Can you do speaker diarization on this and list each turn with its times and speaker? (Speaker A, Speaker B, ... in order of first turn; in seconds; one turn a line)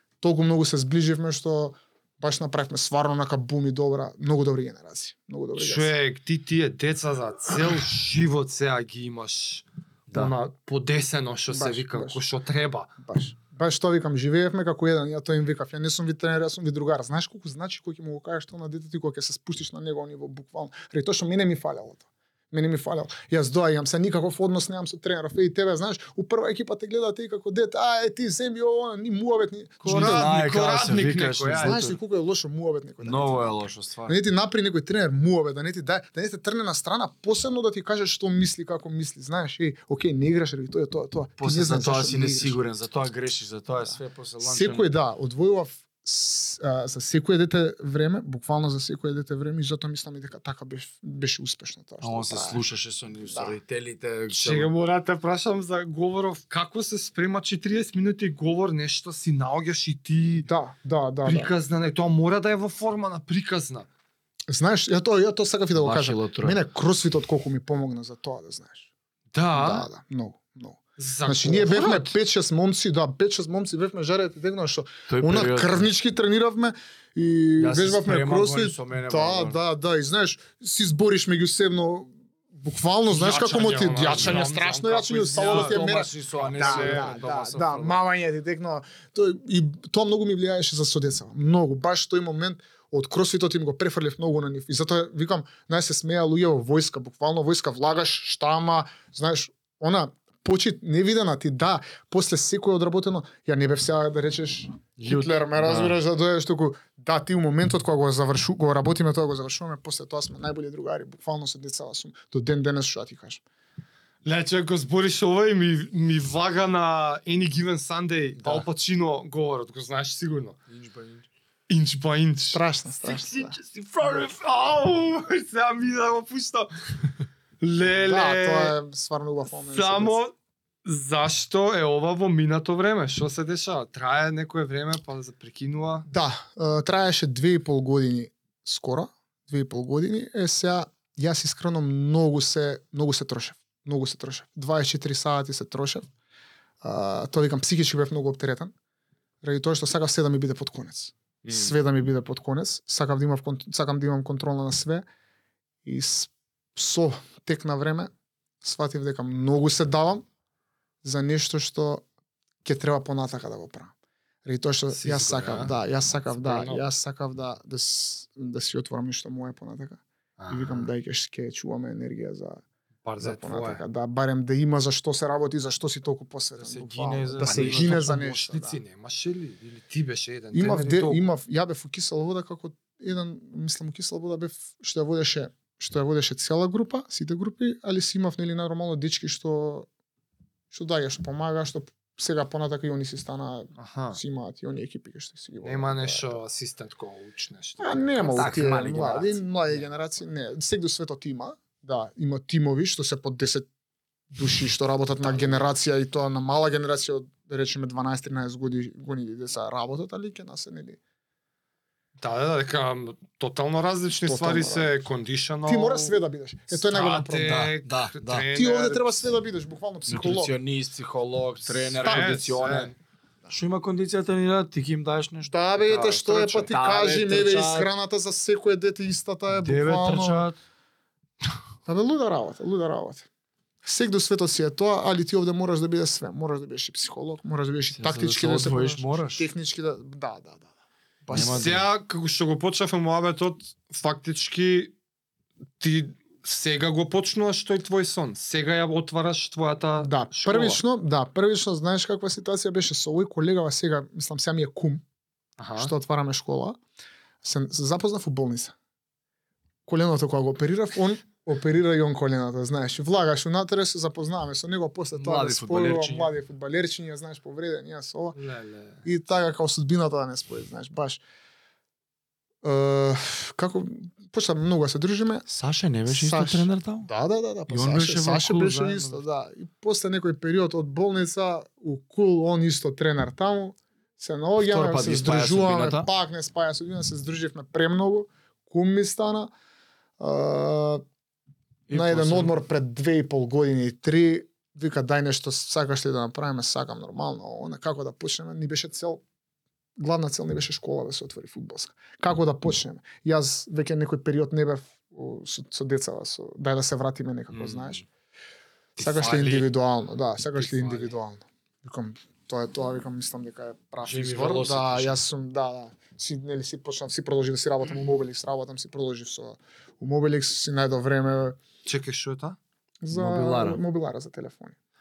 Speaker A: 0.2-5.9
Speaker B: 5.6-12.9
Speaker A: 11.5-12.2
Speaker A: 13.0-30.3
Speaker B: 29.8-31.8
Speaker C: 29.8-32.0
Speaker A: 31.6-42.6
Speaker C: 33.0-34.2
Speaker C: 41.4-44.9
Speaker A: 43.9-52.6
Speaker C: 52.0-54.7
Speaker A: 53.2-53.5
Speaker B: 54.3-60.5
Speaker A: 60.4-61.5
Speaker B: 61.2-63.9
Speaker A: 64.5-68.9
Speaker C: 65.7-66.6
Speaker B: 69.3-69.9
Speaker A: 69.5-113.4
Speaker B: 71.0-72.2
Speaker C: 75.1-75.9
Speaker C: 77.6-79.6
Speaker B: 83.1-87.2
Speaker C: 84.1-84.4
Speaker C: 85.3-88.0
Speaker C: 105.0-106.0
Speaker B: 114.2-120.6
Speaker C: 118.4-118.7
Speaker C: 120.7-121.3
Speaker B: 121.7-127.1
Speaker A: 122.5-123.6
Speaker B: 127.6-128.8
Speaker A: 127.9-130.2
Speaker B: 129.7-130.3
Speaker B: 130.8-136.1
Speaker A: 136.1-146.0
Speaker A: 146.8-148.7
Speaker A: 149.4-155.1
Speaker B: 151.5-151.7
Speaker A: 155.8-158.1
Speaker A: 158.6-160.2
Speaker A: 161.0-162.0
Speaker A: 162.6-163.9
Speaker A: 164.4-172.6
Speaker B: 164.9-165.7
Speaker B: 166.3-166.9
Speaker B: 170.4-170.9
Speaker B: 173.1-173.8
Speaker A: 173.2-178.8
Speaker C: 176.6-178.3
Speaker B: 177.4-181.2
Speaker A: 180.5-189.9
Speaker A: 190.7-196.4
Speaker B: 193.8-194.2
Speaker B: 195.6-198.3
Speaker A: 197.8-203.7
Speaker C: 198.2-199.8
Speaker A: 204.3-211.0
Speaker B: 205.3-205.6
Speaker B: 212.2-216.2
Speaker A: 214.2-214.9
Speaker A: 215.7-217.7
Speaker B: 216.7-219.3
Speaker C: 217.4-218.5
Speaker A: 218.5-220.5
Speaker C: 220.1-222.9
Speaker A: 222.0-222.5
Speaker B: 222.0-222.9
Speaker C: 223.5-227.9
Speaker A: 225.5-230.5
Speaker B: 225.9-226.2
Speaker C: 229.5-230.6
Speaker A: 231.9-233.3
Speaker A: 233.8-240.7
Speaker C: 237.9-239.5
Speaker A: 241.2-241.8
Speaker C: 241.3-241.8
Speaker B: 241.3-244.9
Speaker B: 245.8-250.8
Speaker A: 250.0-255.0
Speaker B: 255.6-255.9
Speaker A: 255.8-256.8
Speaker A: 257.4-258.8
Speaker A: 259.9-268.4
Speaker C: 265.1-266.3
Speaker B: 268.4-269.0
Speaker A: 269.0-271.2
Speaker A: 272.6-275.5
Speaker C: 275.5-277.1
Speaker A: 276.1-289.5
Speaker C: 277.7-279.2
Speaker C: 284.6-286.1
Speaker A: 290.2-291.0
Speaker C: 291.9-292.6
Speaker A: 291.9-299.2
Speaker A: 300.0-308.0
Speaker B: 309.0-309.7
Speaker A: 309.0-321.6
Speaker C: 310.6-311.1
Speaker C: 314.0-315.2
Speaker B: 321.9-322.6
Speaker A: 323.0-324.8
Speaker C: 323.1-323.8